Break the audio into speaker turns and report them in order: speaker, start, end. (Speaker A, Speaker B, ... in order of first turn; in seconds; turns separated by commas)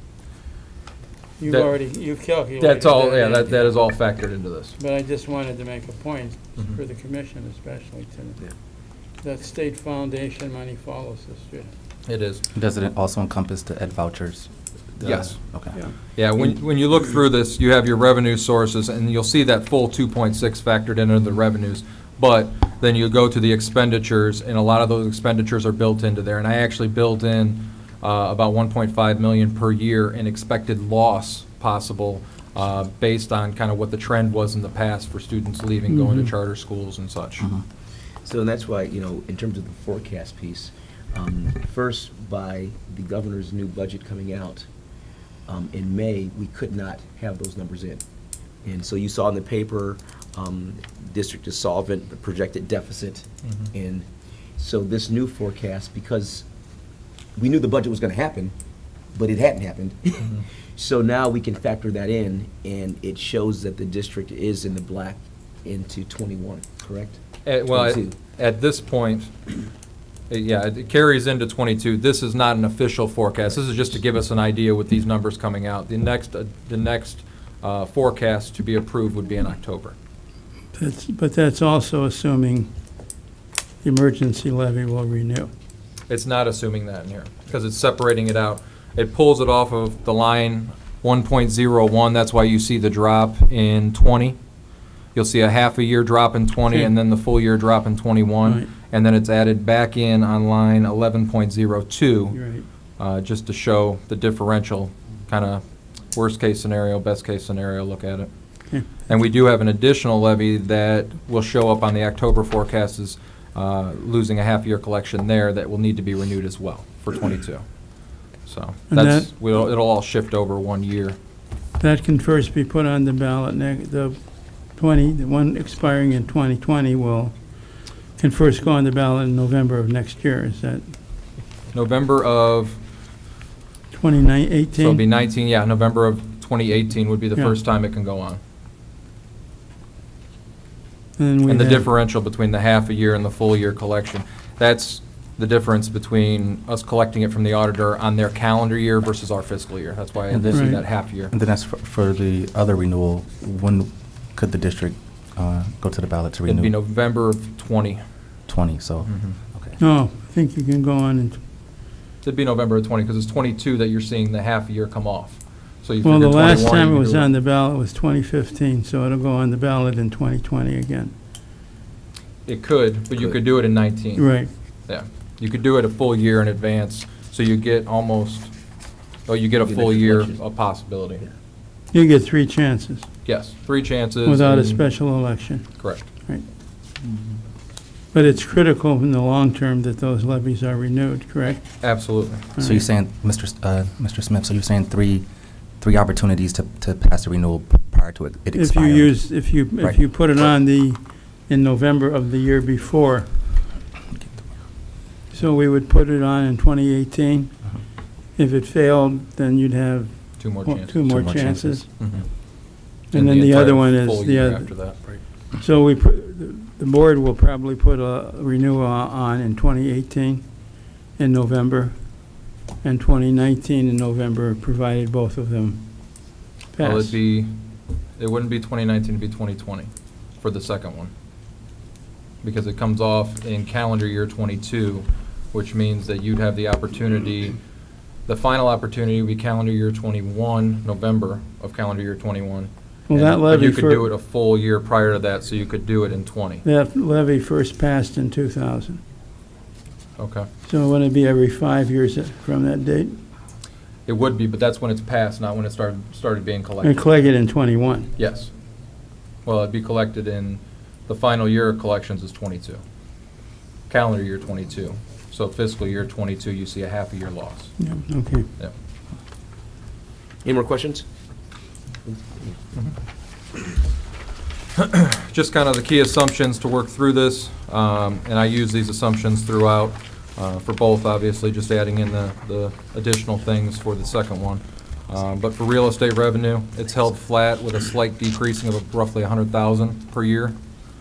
Speaker A: 1.4-3.8, Speaker B: 1.4-1.8, Speaker B: 2.6-4.8, Speaker A: 4.8-8.4, Speaker A: 9.2-11.7, Speaker B: 12.1-12.4, Speaker C: 12.5-15.8, Speaker B: 15.0-15.4, Speaker B: 16.1-37.5, Speaker A: 35.9-36.3, Speaker D: 38.2-44.6, Speaker D: 45.5-48.0, Speaker D: 48.6-54.0, Speaker D: 54.6-56.5, Speaker D: 57.4-58.5, Speaker D: 59.1-68.2, Speaker B: 67.4-69.3, Speaker B: 70.3-79.9, Speaker A: 80.7-82.7, Speaker A: 83.8-85.5, Speaker B: 86.1-94.4, Speaker B: 95.1-102.4, Speaker A: 98.4-98.7, Speaker A: 102.3-102.7, Speaker B: 103.0-108.3, Speaker B: 109.0-117.7, Speaker B: 118.4-121.2, Speaker A: 118.9-119.3, Speaker A: 121.8-127.5, Speaker A: 128.1-130.9, Speaker B: 131.7-132.8, Speaker A: 133.9-135.0, Speaker B: 134.8-138.4, Speaker A: 141.2-141.9, Speaker B: 141.4-151.3, Speaker C: 150.3-156.7, Speaker A: 150.5-150.8, Speaker B: 156.5-158.0, Speaker C: 158.5-159.8, Speaker B: 159.0-159.3, Speaker A: 159.8-161.4, Speaker B: 162.2-167.3, Speaker A: 166.0-171.1, Speaker B: 172.4-174.3, Speaker A: 174.2-174.5, Speaker B: 174.9-178.5, Speaker B: 179.3-181.2, Speaker D: 179.6-180.4, Speaker A: 181.9-183.1, Speaker B: 183.2-184.8, Speaker A: 184.2-186.4, Speaker B: 185.8-186.0, Speaker A: 188.1-191.8, Speaker B: 191.8-192.5, Speaker A: 192.6-192.8, Speaker C: 192.6-195.3, Speaker C: 195.8-200.0, Speaker A: 198.6-203.4, Speaker A: 205.3-207.6, Speaker A: 208.3-211.9, Speaker B: 210.4-210.9, Speaker C: 211.1-211.8, Speaker B: 212.0-212.3, Speaker B: 213.0-215.1, Speaker A: 213.1-214.8, Speaker A: 215.6-220.6, Speaker A: 221.1-222.0, Speaker A: 222.8-225.9, Speaker A: 226.7-227.2, Speaker B: 226.8-227.6, Speaker B: 228.2-231.1, Speaker B: 232.4-237.6, Speaker B: 238.2-246.6, Speaker A: 243.1-244.1, Speaker A: 246.6-249.0, Speaker B: 250.2-250.5, Speaker A: 250.6-253.2, Speaker B: 254.1-257.1, Speaker A: 256.8-258.1, Speaker B: 258.2-258.5, Speaker B: 259.4-262.8, Speaker B: 263.9-267.8, Speaker A: 267.8-268.5, Speaker D: 270.4-271.0, Speaker B: 274.8-290.6